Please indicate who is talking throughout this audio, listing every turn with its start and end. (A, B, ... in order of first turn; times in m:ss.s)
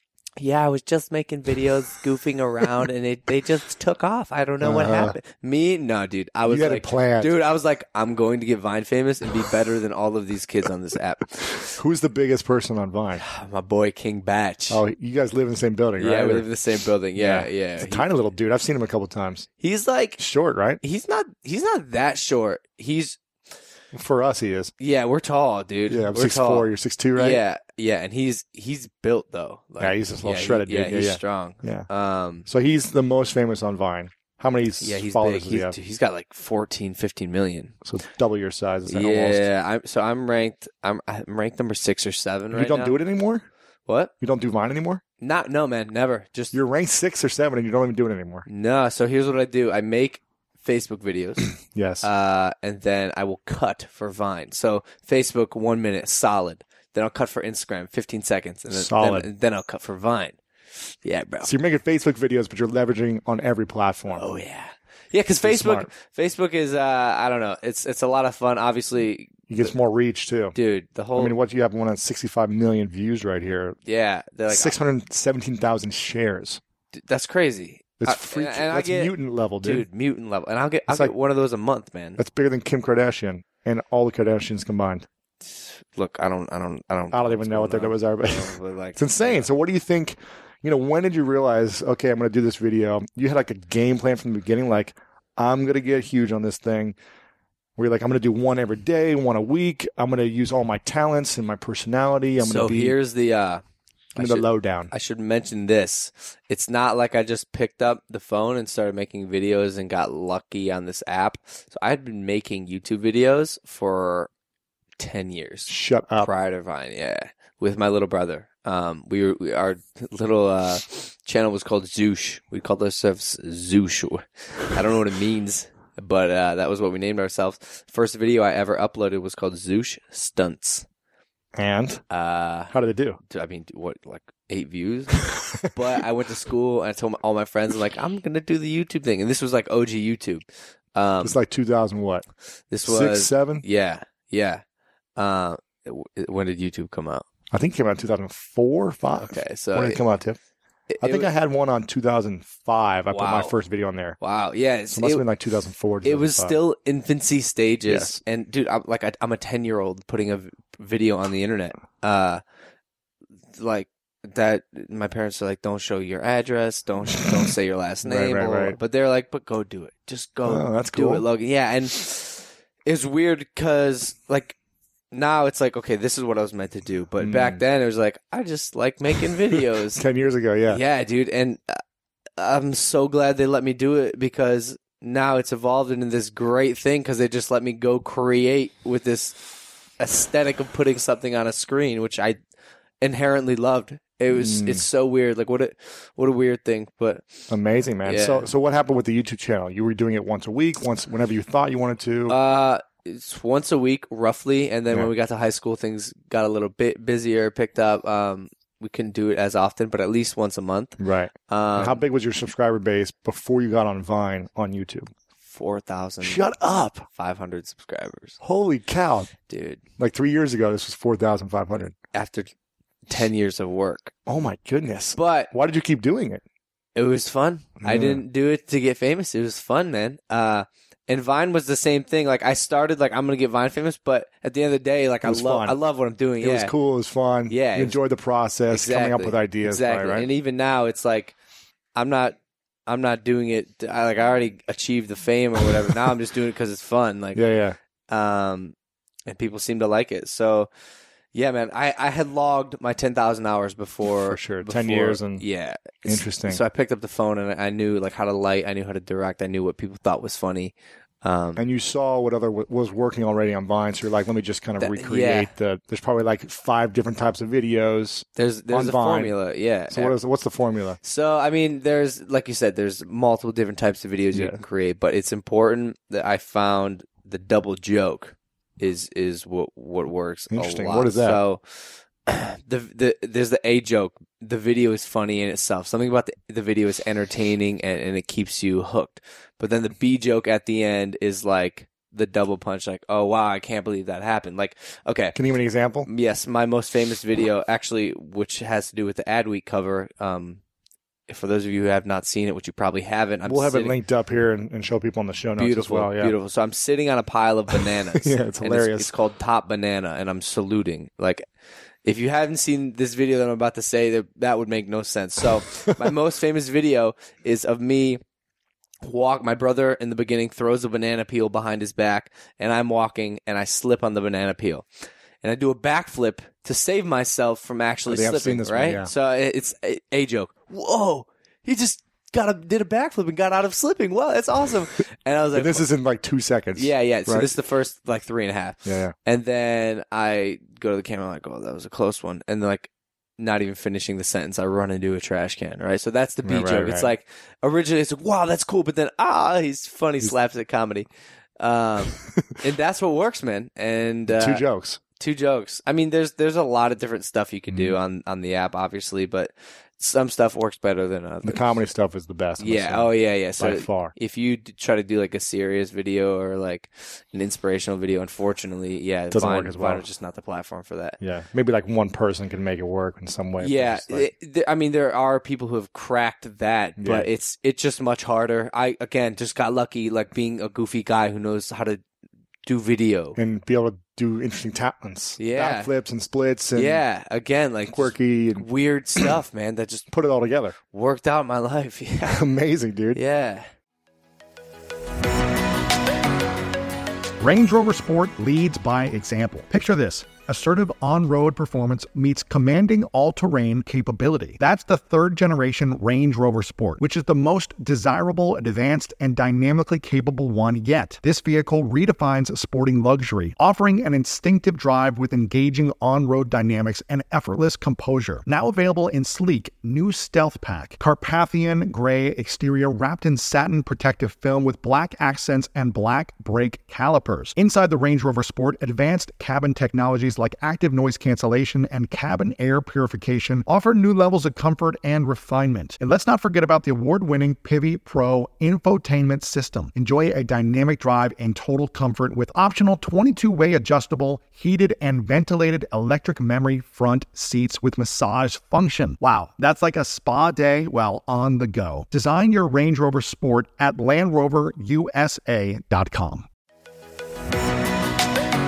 0:00.4-0:11.6 A
0:04.6-0:05.2 B
0:06.4-0:07.3 B
0:11.6-0:13.2 B
0:13.2-0:14.8 A
0:14.7-0:16.5 B
0:16.0-0:18.1 A
0:17.2-0:19.5 B
0:19.6-0:20.2 A
0:20.2-0:20.8 B
0:20.8-0:23.2 A
0:23.9-0:24.7 B
0:24.8-0:32.5 A
0:25.9-0:27.4 B
0:29.8-0:31.9 B
0:32.4-0:35.7 B
0:34.8-0:37.8 A
0:37.8-0:39.4 B
0:38.9-0:43.0 A
0:42.5-0:43.4 B
0:43.8-0:44.1 A
0:44.2-0:45.0 B
0:45.2-0:46.5 A
0:46.5-0:48.4 B
0:48.5-0:51.5 A
0:51.6-0:52.1 B
0:52.0-1:01.5 A
0:58.7-0:59.3 B
1:01.4-1:04.2 B
1:04.1-1:09.7 A
1:05.4-1:05.9 B
1:09.5-1:10.6 B
1:10.5-1:11.3 A
1:11.2-1:13.8 B
1:13.8-1:14.8 A
1:14.5-1:16.6 B
1:16.9-1:22.2 A
1:18.0-1:19.8 B
1:22.2-1:25.0 B
1:25.4-1:29.5 A
1:27.1-1:37.0 B
1:37.8-1:43.0 B
1:42.4-1:43.6 A
1:44.2-1:54.3 A
1:44.2-1:44.9 B
1:55.0-2:10.8 A
1:55.7-1:56.3 B
2:11.5-2:12.0 B
2:12.1-2:21.4 A
2:12.7-2:13.2 B
2:21.2-2:22.2 B
2:22.7-2:24.6 A
2:22.8-2:23.6 B
2:25.2-2:27.2 A
2:27.5-2:30.4 B
2:29.2-2:30.0 A
2:30.9-2:31.3 A
2:31.0-2:34.2 B
2:33.1-2:33.6 A
2:34.2-2:35.2 A
2:34.9-2:36.6 B
2:36.0-2:42.4 A
2:37.9-2:38.2 B
2:43.5-2:54.6 A
2:48.0-2:48.8 B
2:50.4-2:51.2 B
2:55.1-3:00.0 A
2:57.2-2:57.6 B
2:59.9-3:00.8 B
3:00.7-3:01.8 A
3:02.4-3:09.4 A
3:10.0-3:12.4 A
3:13.0-3:17.5 A
3:14.3-3:14.8 B
3:17.5-3:22.4 B
3:18.0-3:18.5 A
3:22.3-3:32.0 A
3:31.0-3:35.1 B
3:35.4-3:36.4 A
3:36.2-3:37.0 B
3:37.1-3:38.4 A
3:38.4-3:39.3 B
3:39.4-3:39.8 A
3:40.0-3:41.9 B
3:42.1-3:42.5 A
3:43.1-3:44.1 A
3:44.3-3:46.4 B
3:45.1-3:45.5 A
3:46.9-3:56.7 A
3:47.8-3:48.2 B
3:55.2-3:55.8 B
3:56.4-4:00.3 B
3:57.5-3:58.0 A
3:58.7-4:01.3 A
4:01.9-4:02.4 A
4:02.9-4:07.4 A
4:07.3-4:07.8 B
4:08.1-4:08.7 A
4:09.3-4:10.7 A
4:11.3-4:21.6 A
4:14.2-4:15.4 B
4:16.0-4:16.6 B
4:21.6-4:29.3 B
4:24.8-4:25.5 A
4:28.4-4:30.2 A
4:29.9-4:31.0 B
4:31.0-4:55.4 A
4:34.3-4:34.6 B
4:40.5-4:41.4 B
4:55.3-4:56.1 B
4:56.0-5:00.6 A
5:01.3-5:04.0 A
5:03.4-5:06.3 B
5:05.6-5:11.4 A
5:08.1-5:09.1 B
5:12.0-5:18.2 A
5:19.0-5:24.9 A
5:25.4-5:35.9 A
5:28.1-5:29.1 B
5:35.5-5:37.5 B
5:36.8-5:51.1 A
5:38.8-5:39.1 B
5:46.4-5:47.1 B
5:51.6-5:54.6 A
5:54.3-5:55.0 B
5:55.2-6:01.7 A
5:57.7-5:57.9 B
6:01.4-6:04.1 B
6:02.6-6:11.2 A
6:09.3-6:10.0 B
6:11.2-6:14.3 B
6:13.6-6:22.0 A
6:17.0-6:17.3 B
6:22.6-6:23.4 A
6:23.4-6:27.0 B
6:25.4-6:25.9 A
6:26.7-6:30.1 A
6:27.9-6:28.6 B
6:30.1-6:30.8 B
6:30.9-6:32.4 A
6:32.2-6:33.2 B
6:33.1-6:33.7 A
6:37.4-7:36.4 C